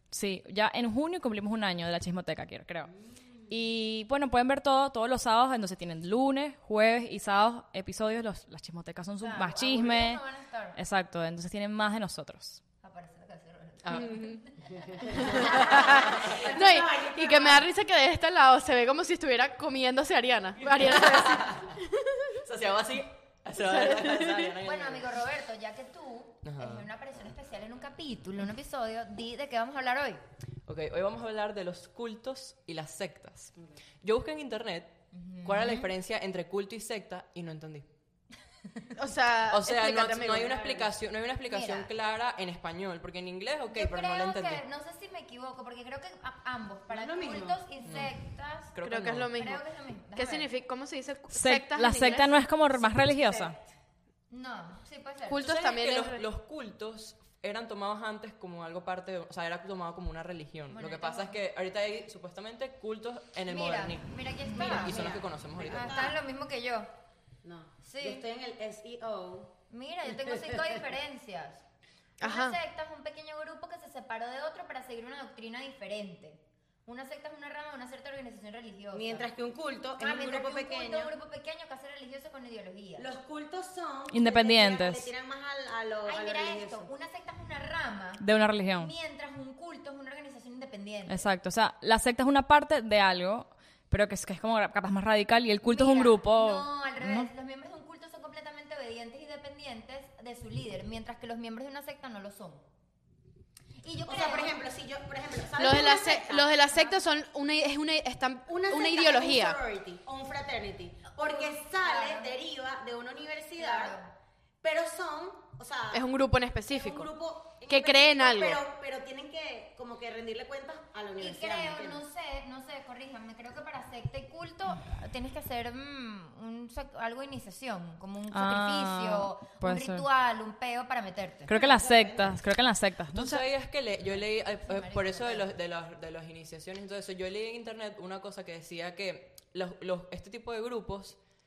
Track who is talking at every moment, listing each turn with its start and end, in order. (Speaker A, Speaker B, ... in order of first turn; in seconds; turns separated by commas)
Speaker A: 0.1-2.9, Speaker B: 2.9-3.5, Speaker A: 3.5-10.2, Speaker C: 9.2-10.8, Speaker A: 10.8-12.6, Speaker C: 12.8-16.5, Speaker D: 13.8-14.2, Speaker E: 13.9-14.4, Speaker E: 15.1-22.4, Speaker D: 15.3-16.3, Speaker B: 15.4-17.6, Speaker D: 20.7-21.7, Speaker D: 22.4-25.2, Speaker E: 23.6-24.5, Speaker C: 24.6-30.2, Speaker D: 26.4-26.9, Speaker D: 30.7-37.9, Speaker C: 35.1-35.9, Speaker E: 39.0-40.8, Speaker D: 39.5-44.6, Speaker B: 40.7-40.9, Speaker C: 41.5-41.9, Speaker C: 43.7-48.7, Speaker B: 46.9-47.6, Speaker D: 47.8-48.2, Speaker D: 48.7-49.4, Speaker E: 48.8-49.6, Speaker C: 49.3-50.5, Speaker E: 50.1-52.4, Speaker A: 51.3-53.5, Speaker B: 53.1-53.6, Speaker C: 54.3-55.5, Speaker E: 55.3-56.2, Speaker D: 55.4-66.1, Speaker C: 60.7-61.4, Speaker C: 63.5-65.1, Speaker B: 64.5-66.2, Speaker C: 65.6-66.9, Speaker B: 67.4-69.5, Speaker C: 67.8-68.2, Speaker C: 69.7-71.6, Speaker B: 70.1-70.8, Speaker E: 72.2-72.6, Speaker C: 72.2-79.3, Speaker B: 78.9-81.1, Speaker C: 80.0-83.1, Speaker B: 83.0-86.9, Speaker A: 84.1-85.1, Speaker C: 86.1-88.2, Speaker A: 88.2-88.9, Speaker C: 88.8-91.3, Speaker A: 91.1-97.3, Speaker C: 95.6-102.6, Speaker C: 103.8-104.6, Speaker B: 104.0-106.5, Speaker E: 105.6-109.6, Speaker C: 106.7-107.1, Speaker B: 108.5-114.0, Speaker C: 111.2-112.3, Speaker C: 113.6-114.1, Speaker B: 114.6-116.1, Speaker E: 115.9-117.1, Speaker B: 116.7-122.0, Speaker E: 117.7-118.6, Speaker C: 121.2-131.5, Speaker A: 128.3-130.1, Speaker A: 131.5-133.4, Speaker B: 131.5-132.4, Speaker D: 133.1-141.2, Speaker C: 134.1-135.5